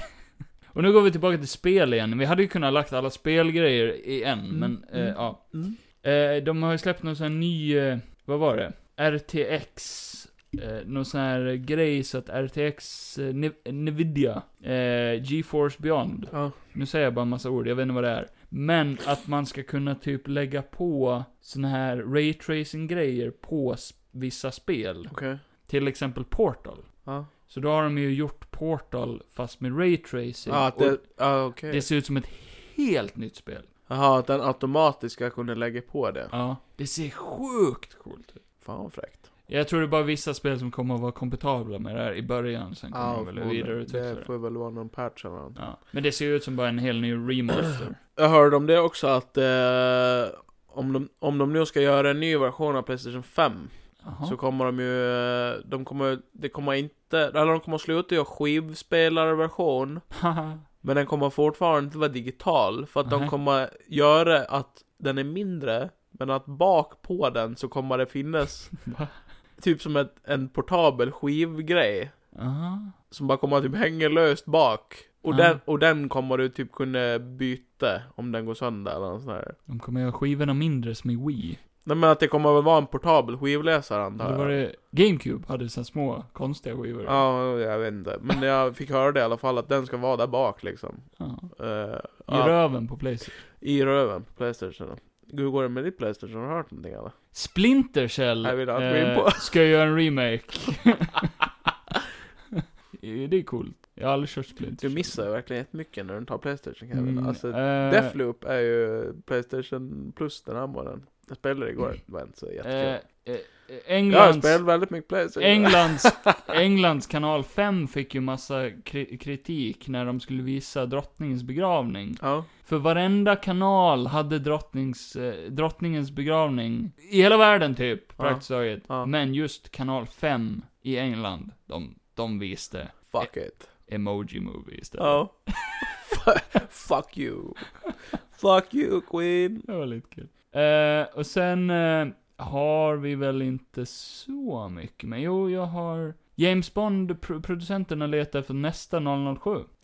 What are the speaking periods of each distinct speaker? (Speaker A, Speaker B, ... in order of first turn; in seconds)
Speaker A: 0.7-33.7, 36.3-38.4, 39.5-44.3, 45.5-48.0, 54.0-54.4, 60.1-60.6, 63.0-63.3, 68.8-69.2, 72.3-72.9, 75.3-75.6, 79.7-81.6, 84.2-87.2, 91.2-91.5, 92.3-93.4, 97.3-101.5, 102.5-105.2, 106.9-108.2, 112.6-135.9, 139.7-149.7
Speaker B: 4.5-5.8, 16.3-16.6, 25.1-25.4, 27.0-27.3, 30.5-31.8, 33.9-36.3, 38.6-39.3, 42.9-45.6, 48.1-60.1, 60.8-68.8, 69.6-72.3, 73.1-79.6, 81.8-84.6, 87.0-97.2, 98.4-99.5, 104.8-113.2, 114.1-116.3, 122.2-122.5, 128.2-129.1, 133.1-133.7, 135.0-139.7